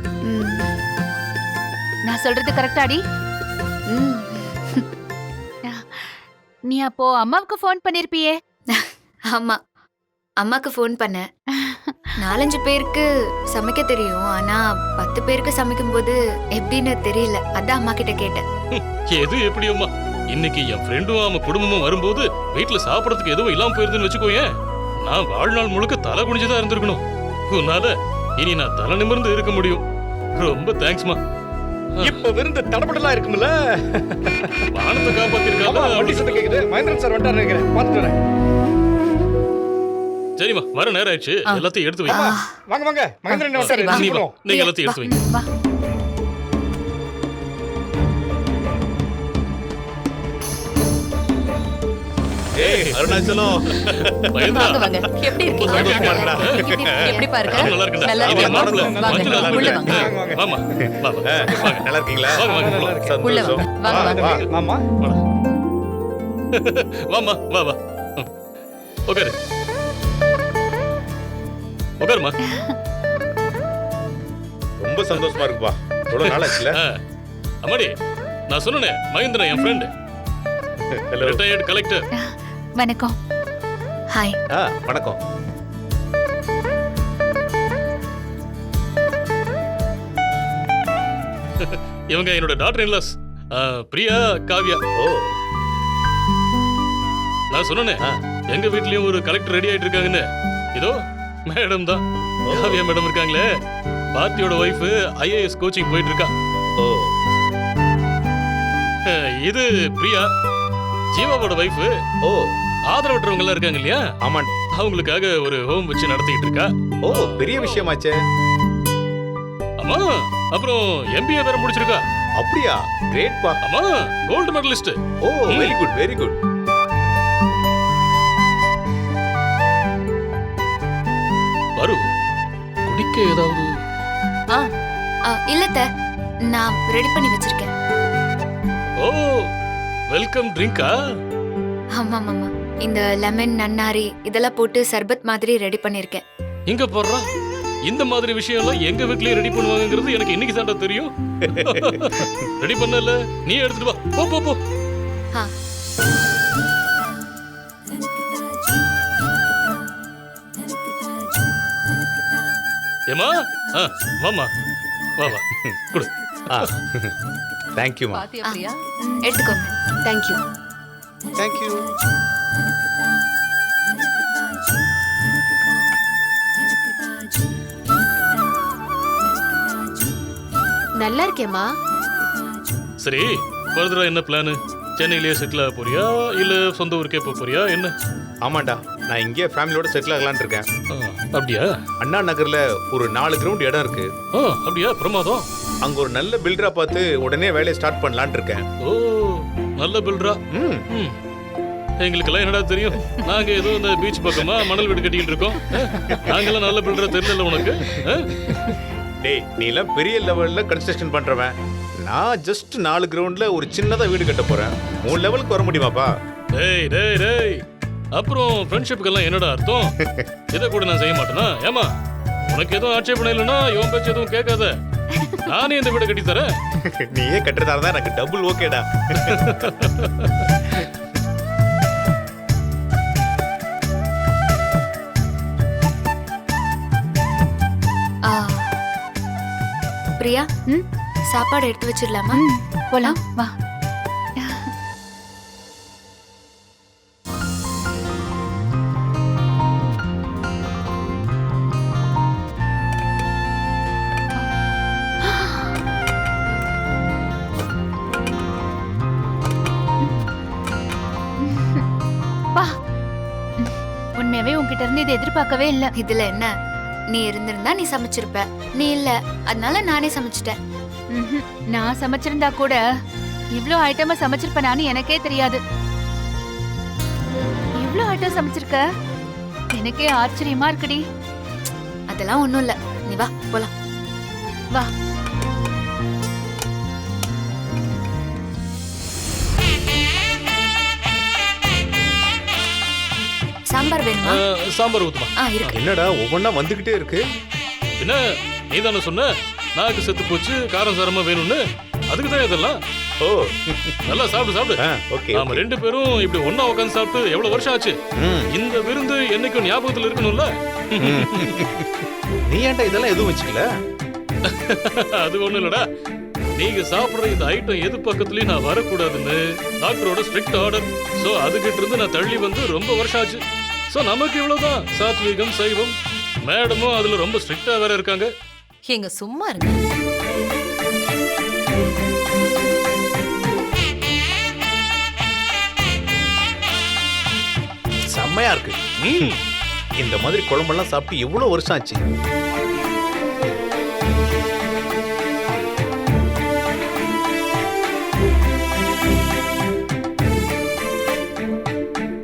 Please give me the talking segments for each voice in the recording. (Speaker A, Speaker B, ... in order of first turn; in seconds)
Speaker A: 0.2-0.7, 3.9-4.9, 8.7-9.6, 10.4-11.3, 12.2-18.4, 42.1-42.6, 43.6-44.1, 55.5-57.4, 84.1-84.4, 135.3-135.8, 136.5-137.7, 141.9-146.2, 169.2-170.3, 181.0-181.7, 238.2-238.7, 240.2-240.5, 241.3-242.4, 266.0-266.5, 267.1-270.6, 282.1-283.7, 293.7-294.4, 295.4-295.8
Speaker B: 2.1-3.0, 5.7-8.3, 11.6-12.1, 72.4-72.7, 82.2-83.1, 169.0-169.4, 225.1-225.4, 242.3-243.5, 244.4-244.7, 255.2-255.8, 261.4-261.8, 263.6-265.9, 271.1-272.8, 273.6-275.6, 277.8-278.8, 279.7-281.0
Speaker C: 18.7-24.5, 25.0-29.8, 30.4-31.2, 34.7-36.4, 40.4-42.2, 43.5-45.3, 52.6-54.9, 55.6-56.7, 57.5-63.0, 64.0-64.4, 66.5-68.3, 69.1-69.3, 72.0-72.3, 75.1-75.5, 76.1-77.0, 77.6-77.9, 78.5-79.9, 81.2-82.0, 91.6-94.8, 97.5-100.2, 101.5-103.4, 104.1-106.3, 109.1-110.3, 111.1-111.9, 112.9-114.0, 114.8-117.9, 119.8-122.0, 123.6-124.9, 132.9-133.7, 139.0-139.3, 140.1-140.9, 146.7-147.2, 147.9-154.6, 163.1-164.5, 165.2-166.1, 183.0-187.9, 190.9-191.7, 194.3-195.4, 198.8-200.4, 200.9-201.2, 202.0-208.6, 216.5-217.6, 218.1-219.9, 220.5-221.9, 222.5-224.7, 225.5-226.5, 229.2-230.5, 294.2-295.7, 298.0-302.8, 304.1-304.8, 305.4-307.9, 308.5-311.6, 314.4-315.8, 316.6-323.4, 323.9-325.9, 326.5-328.3, 339.0-339.4
Speaker D: 32.0-34.6, 35.6-38.2, 42.1-44.4, 58.3-60.5, 61.5-61.8, 62.4-63.2, 64.0-64.8
Speaker E: 52.6-54.7, 56.1-60.1, 61.2-62.5, 63.0-64.5, 74.8-76.8, 80.9-81.4, 84.5-85.2, 95.0-95.4, 102.5-102.8, 106.8-107.1, 114.2-114.5, 117.0-118.2, 122.4-123.6, 125.2-126.4, 151.4-152.5, 165.5-165.8, 166.5-167.1, 167.8-168.3, 171.3-171.9, 188.4-190.7, 192.0-194.1, 195.8-198.6, 200.5-200.8, 206.1-206.5, 209.2-216.1, 220.0-220.3, 226.8-229.9, 295.7-297.2, 303.2-304.1, 304.8-305.6, 308.2-308.5, 311.0-313.6, 338.1-339.3, 340.0-342.0
Speaker F: 54.5-60.0, 63.2-64.2, 168.1-168.8, 328.9-329.8